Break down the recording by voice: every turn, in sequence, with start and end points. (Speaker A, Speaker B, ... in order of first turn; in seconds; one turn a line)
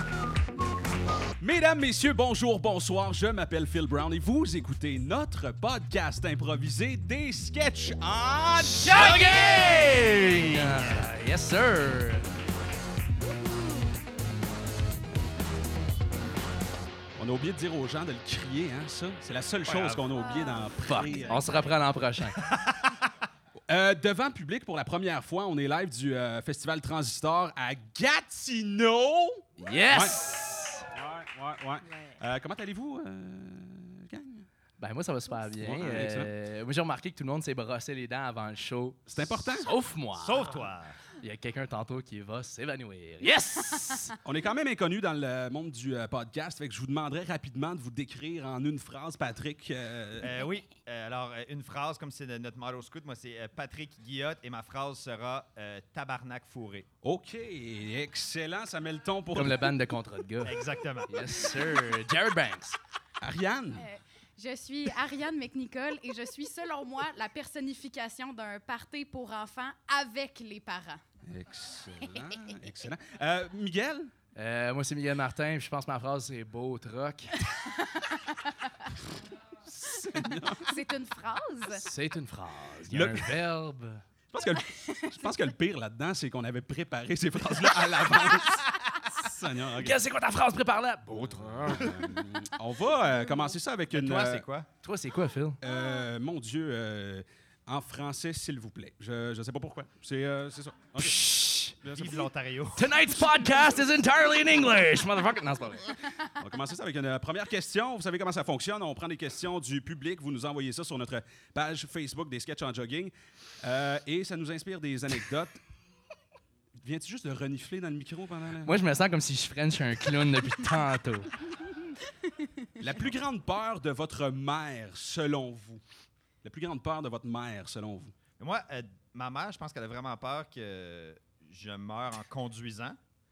Speaker A: 1.4-9.4
Speaker B: 8.6-12.3
Speaker C: 8.9-9.8
Speaker D: 9.0-11.1
Speaker A: 17.2-21.5
Speaker D: 19.7-20.2
Speaker B: 20.8-22.4
Speaker D: 22.4-23.1
Speaker A: 23.7-30.2
Speaker B: 29.6-30.9
Speaker A: 30.9-34.5
Speaker C: 31.9-32.2
Speaker B: 34.8-40.6
Speaker A: 35.6-36.3
Speaker A: 39.1-39.7
Speaker D: 40.2-41.0
Speaker B: 41.2-44.1
Speaker A: 44.2-50.4
Speaker D: 50.2-56.9
Speaker A: 57.0-59.7
Speaker B: 59.3-62.8
Speaker D: 60.4-61.4
Speaker A: 63.2-63.9
Speaker C: 63.8-71.0
Speaker A: 71.3-74.1
Speaker C: 72.2-72.5
Speaker B: 74.3-77.4
Speaker C: 77.8-78.9
Speaker A: 79.7-80.7
Speaker C: 80.5-81.9
Speaker B: 81.8-84.0
Speaker A: 82.9-83.4
Speaker A: 84.3-90.0
Speaker C: 84.5-85.2
Speaker B: 89.7-92.0
Speaker A: 91.2-94.5
Speaker D: 93.9-94.7
Speaker B: 94.8-95.6
Speaker A: 95.6-101.2
Speaker B: 101.0-101.8
Speaker A: 101.8-102.3
Speaker D: 101.9-102.9
Speaker B: 102.8-106.0
Speaker A: 106.3-115.6
Speaker A: 116.8-118.8
Speaker B: 118.7-121.3
Speaker C: 122.1-122.7
Speaker A: 122.8-125.8
Speaker A: 126.4-128.2
Speaker D: 128.4-133.0